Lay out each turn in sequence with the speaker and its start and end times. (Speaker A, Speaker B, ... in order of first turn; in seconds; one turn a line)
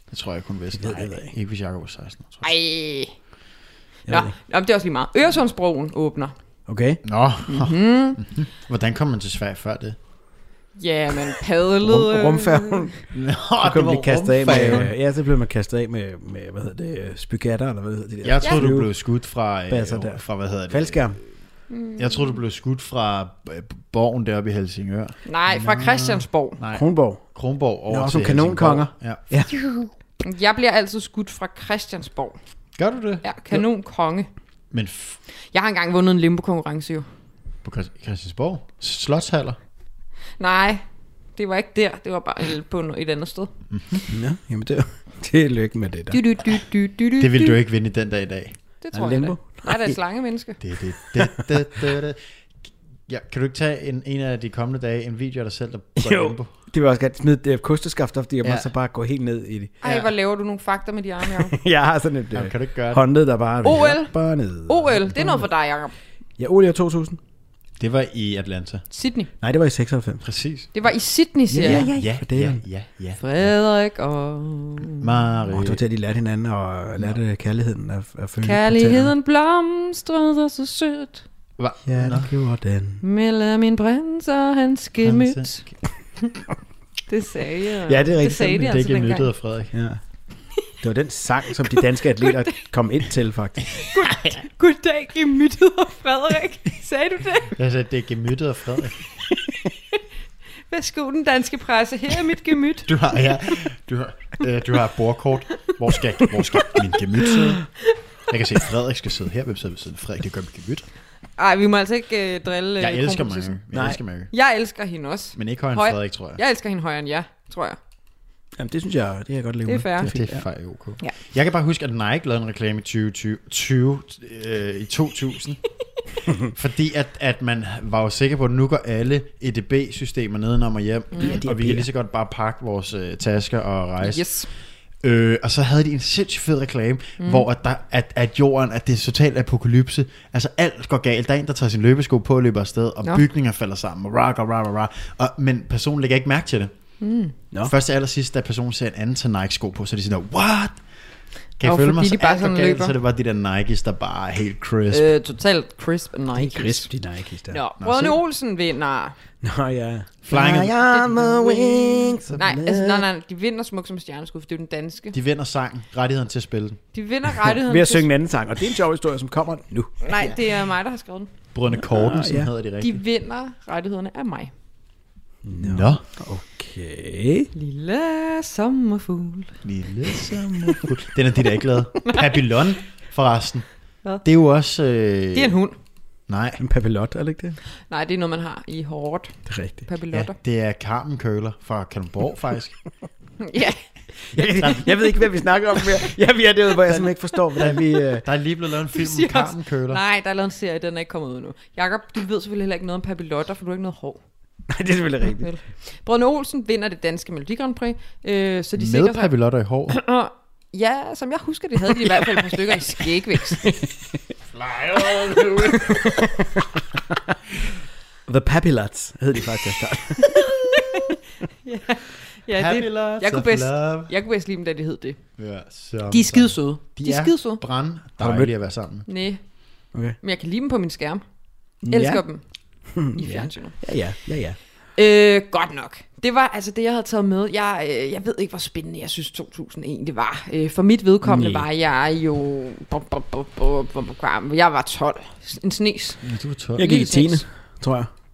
Speaker A: 0.1-2.5
Speaker B: 0.8-1.3
Speaker C: 2.4-3.4
Speaker B: 4.0-4.4
Speaker C: 4.1-6.4
Speaker B: 6.6-7.0
Speaker A: 7.0-10.0
Speaker C: 7.5-8.4
Speaker C: 10.8-12.8
Speaker B: 11.8-21.4
Speaker A: 13.1-14.9
Speaker A: 18.2-25.2
Speaker C: 18.4-18.7
Speaker C: 21.7-22.4
Speaker C: 25.2-26.6
Speaker B: 25.5-29.9
Speaker A: 26.6-29.3
Speaker C: 30.2-32.6
Speaker A: 32.8-33.6
Speaker C: 33.2-34.4
Speaker A: 34.7-35.2
Speaker C: 35.5-37.1
Speaker A: 37.6-39.6
Speaker C: 40.4-43.5
Speaker A: 43.7-44.0
Speaker B: 44.1-46.3
Speaker C: 46.1-47.5
Speaker A: 47.2-48.9
Speaker C: 48.8-50.6
Speaker B: 48.9-50.0
Speaker A: 50.6-56.5
Speaker B: 56.0-59.8
Speaker A: 58.4-58.7
Speaker C: 59.8-61.5
Speaker B: 61.2-65.5
Speaker A: 62.3-63.4
Speaker C: 63.6-66.0
Speaker B: 66.3-67.2
Speaker A: 67.8-68.8
Speaker C: 68.9-69.3
Speaker B: 69.4-70.4
Speaker A: 70.2-70.7
Speaker C: 70.7-72.2
Speaker B: 71.5-72.8
Speaker A: 71.6-73.5
Speaker C: 73.2-75.1
Speaker A: 75.0-75.8
Speaker B: 75.5-79.1
Speaker C: 78.4-81.2
Speaker A: 81.6-82.3
Speaker B: 81.8-83.0
Speaker C: 83.0-85.7
Speaker A: 85.0-85.9
Speaker C: 87.1-89.5
Speaker B: 87.8-88.7
Speaker A: 88.5-89.7
Speaker B: 89.7-93.8
Speaker C: 92.2-92.6
Speaker C: 93.7-97.5
Speaker A: 97.5-99.0
Speaker C: 100.7-103.5
Speaker A: 102.9-110.8
Speaker C: 111.4-113.6
Speaker A: 112.8-114.3
Speaker B: 113.7-114.1
Speaker C: 114.2-117.8
Speaker A: 115.3-116.4
Speaker B: 118.5-120.6
Speaker C: 119.7-121.2
Speaker A: 120.0-155.1
Speaker B: 131.2-131.9
Speaker C: 134.0-134.5
Speaker C: 137.2-137.4
Speaker C: 147.0-147.4
Speaker C: 151.6-152.9
Speaker C: 154.9-159.2
Speaker B: 156.3-158.1
Speaker A: 157.8-158.2
Speaker B: 159.4-163.1
Speaker A: 160.2-160.8
Speaker C: 160.9-165.1
Speaker A: 165.1-166.8
Speaker C: 166.9-168.2
Speaker B: 167.6-170.3
Speaker C: 170.0-171.3
Speaker A: 171.5-173.0
Speaker B: 171.8-172.6
Speaker C: 172.8-174.5
Speaker B: 175.4-177.5
Speaker A: 175.6-176.1
Speaker C: 177.5-179.7
Speaker A: 179.6-185.6
Speaker C: 182.1-182.4
Speaker C: 185.3-185.8
Speaker A: 186.2-186.6
Speaker B: 186.6-187.6
Speaker C: 187.8-190.3
Speaker B: 189.4-189.9
Speaker A: 190.1-192.8
Speaker C: 193.4-194.1
Speaker B: 194.2-198.2
Speaker A: 194.4-194.9
Speaker C: 194.6-195.2
Speaker A: 196.9-200.0
Speaker C: 197.4-197.8
Speaker C: 198.9-204.6
Speaker B: 204.6-205.6
Speaker C: 205.4-213.6
Speaker A: 208.8-210.0
Speaker B: 211.9-213.0
Speaker B: 213.5-214.2
Speaker A: 214.5-216.1
Speaker B: 218.2-220.2
Speaker C: 221.6-227.6
Speaker A: 222.5-224.1
Speaker A: 225.4-229.1
Speaker B: 228.2-228.7
Speaker C: 229.0-234.4
Speaker B: 229.9-230.2
Speaker B: 231.8-234.6
Speaker C: 234.9-247.5
Speaker B: 241.2-241.7
Speaker A: 246.2-246.8
Speaker B: 246.7-248.1